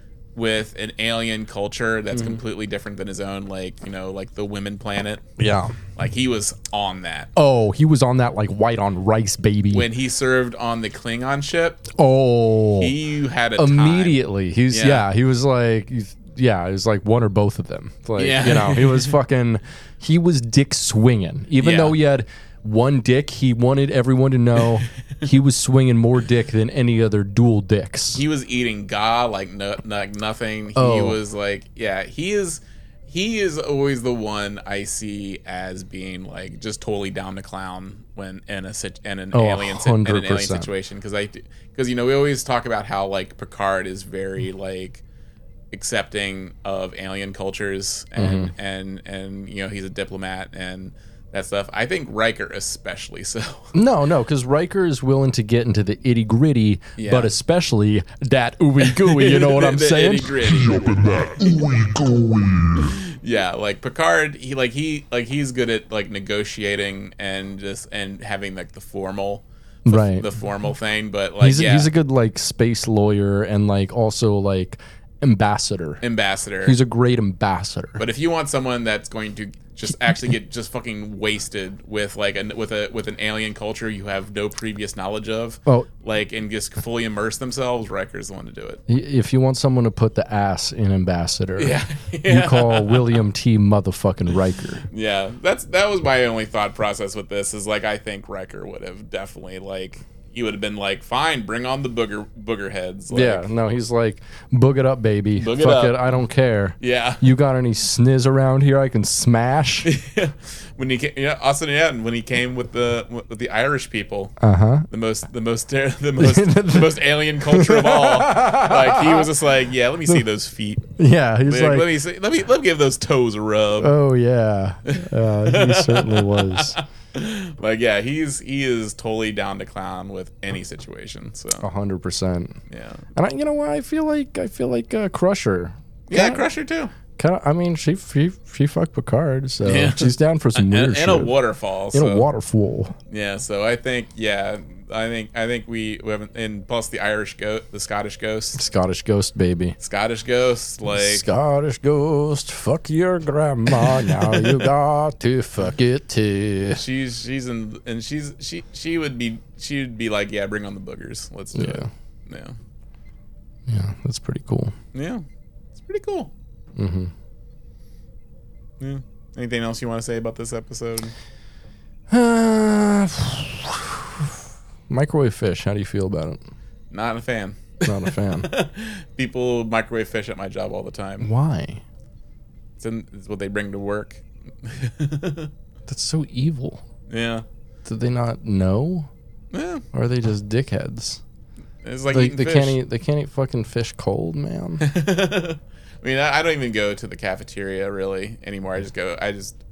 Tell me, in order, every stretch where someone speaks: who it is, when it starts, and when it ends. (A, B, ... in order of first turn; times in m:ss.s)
0:00.4-0:05.2 A
0:02.1-0:02.4 B
0:05.4-0:05.8 B
0:06.0-0:07.3 A
0:07.4-0:09.9 B
0:09.7-0:11.9 A
0:11.9-0:13.0 B
0:12.8-0:14.2 A
0:13.6-0:28.2 B
0:14.7-0:15.0 A
0:18.2-0:19.2 A
0:21.6-0:22.0 A
0:28.1-0:45.0 A
0:30.8-0:31.2 B
0:39.3-0:40.7 B
0:45.7-0:53.7 A
0:48.2-0:48.5 B
0:53.7-1:00.7 B
0:57.0-0:57.3 A
0:58.8-1:01.1 A
1:00.4-1:03.0 C
1:02.8-1:11.9 A
1:09.9-1:10.3 B
1:11.4-1:16.0 B
1:16.0-1:16.8 A
1:16.6-1:18.0 B
1:18.0-1:28.8 A
1:28.9-1:34.9 B
1:31.6-1:33.2 A
1:34.9-1:43.5 A
1:43.1-1:49.9 B
1:45.4-1:46.0 A
1:46.8-1:47.3 A
1:49.8-1:54.4 A
1:54.4-1:54.9 B
1:54.9-2:00.9 A
1:56.2-1:59.3 B
2:01.0-2:01.9 B
2:01.4-2:04.0 A
2:03.8-2:06.8 B
2:04.9-2:11.7 A
2:11.6-2:12.6 B
2:12.7-2:13.0 A
2:13.2-2:16.5 B
2:16.1-2:16.9 A
2:17.2-2:21.4 B
2:19.6-2:22.3 A
2:21.9-2:23.0 B
2:23.1-2:28.6 A
2:28.6-2:29.8 B
2:29.8-2:31.3 A
2:30.9-2:36.8 B
2:33.7-2:34.6 A
2:36.7-2:42.6 A
2:41.5-2:41.9 B
2:43.7-2:44.7 B
2:44.9-2:45.2 A
2:45.8-2:46.3 A
2:46.8-2:47.1 B
2:48.8-2:51.1 A
2:52.1-2:54.4 B
2:54.9-2:56.4 B
2:56.9-3:01.3 A
2:57.9-2:58.5 B
3:01.2-3:01.8 B
3:02.8-3:05.5 A
3:05.9-3:06.8 B
3:07.1-3:07.4 A
3:07.8-3:09.1 B
3:09.5-3:09.8 A
3:09.9-3:11.2 B
3:11.8-3:12.8 A
3:12.1-3:14.8 B
3:14.8-3:19.6 A